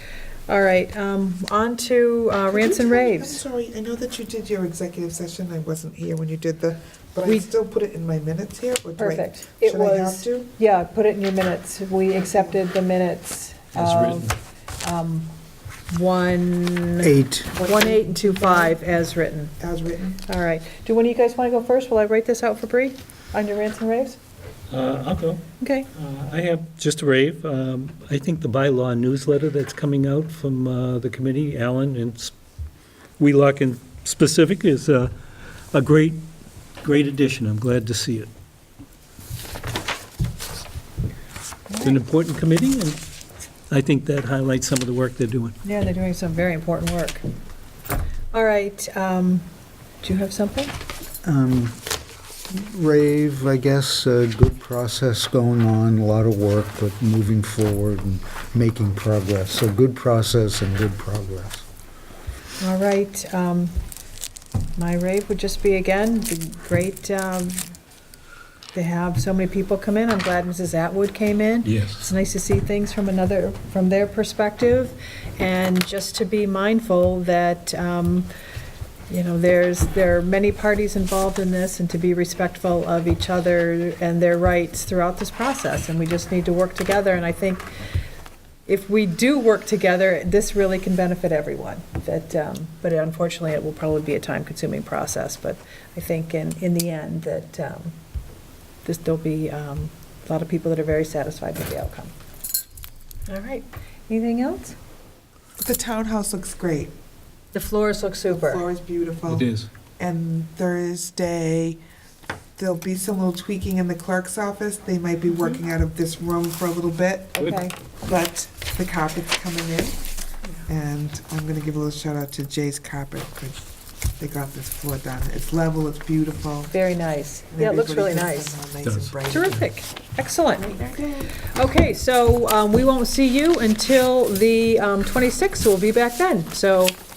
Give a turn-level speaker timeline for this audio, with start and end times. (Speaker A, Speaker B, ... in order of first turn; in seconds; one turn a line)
Speaker A: 0.5-3.4
Speaker B: 2.5-10.5
Speaker A: 9.0-15.3
Speaker C: 13.7-14.3
Speaker A: 15.9-19.6
Speaker D: 17.0-17.5
Speaker B: 17.5-18.8
Speaker B: 19.6-20.2
Speaker A: 20.2-24.2
Speaker C: 24.7-32.3
Speaker A: 25.6-25.9
Speaker C: 33.2-35.1
Speaker C: 35.7-36.3
Speaker C: 36.8-38.3
Speaker A: 41.7-42.0
Speaker C: 41.8-43.0
Speaker C: 43.7-45.5
Speaker A: 45.6-47.3
Speaker A: 48.3-49.5
Speaker A: 50.0-50.8
Speaker D: 51.2-51.8
Speaker D: 52.5-61.6
Speaker A: 62.6-63.7
Speaker A: 64.8-67.7
Speaker A: 68.7-78.3
Speaker C: 71.6-72.1
Speaker A: 79.1-87.8
Speaker A: 88.7-97.9
Speaker A: 98.8-102.1
Speaker A: 103.3-104.8
Speaker B: 105.6-106.9
Speaker A: 107.5-108.7
Speaker B: 108.3-109.5
Speaker C: 109.3-109.7
Speaker B: 110.0-111.8
Speaker B: 112.6-117.4
Speaker A: 117.4-117.7
Speaker B: 118.0-120.0
Speaker B: 120.7-123.6
Speaker B: 124.2-126.7
Speaker A: 126.7-128.7
Speaker B: 127.5-129.7
Speaker C: 128.8-129.2
Speaker A: 129.3-130.7
Speaker B: 130.6-131.3
Speaker A: 131.4-137.0